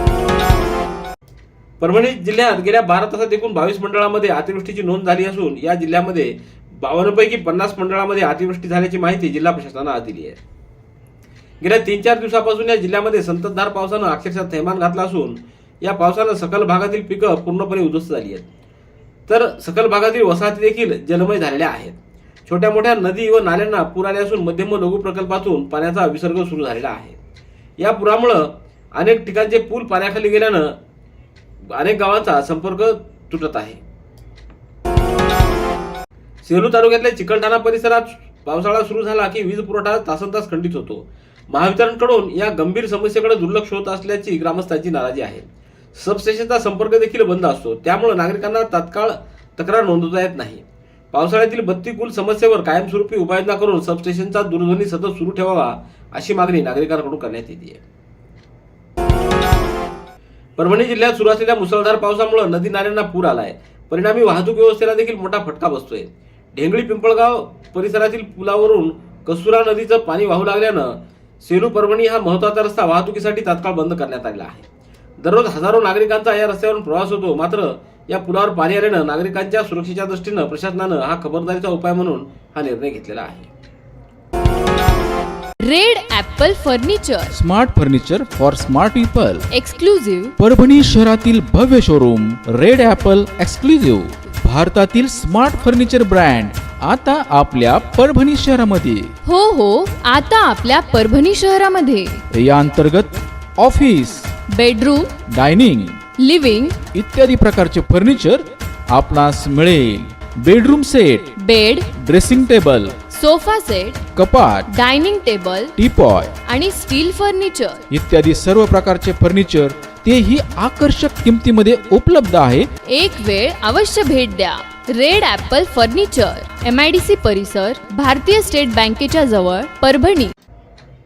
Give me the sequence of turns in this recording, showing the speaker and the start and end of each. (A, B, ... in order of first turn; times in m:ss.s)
0:01.8-0:10.4 A
0:11.6-0:18.5 A
0:19.3-0:27.2 A
0:27.8-0:30.8 A
0:31.7-0:33.8 A
0:36.4-0:57.8 A
1:00.6-1:14.6 A
1:15.2-1:23.5 A
1:25.6-1:27.3 B
1:27.3-1:29.4 C
1:29.5-1:30.3 B
1:30.4-1:39.1 C
1:39.2-1:42.2 B
1:42.3-1:44.3 C
1:44.5-1:45.2 B
1:45.3-1:46.0 C
1:46.2-1:46.8 B
1:46.9-1:51.3 C
1:51.4-1:51.9 B
1:51.9-1:53.0 C
1:53.1-1:54.0 B
1:54.1-1:54.7 C
1:54.7-1:55.7 B
1:55.8-1:56.3 C
1:56.4-1:57.8 B
1:57.9-2:02.7 C
2:02.9-2:10.3 B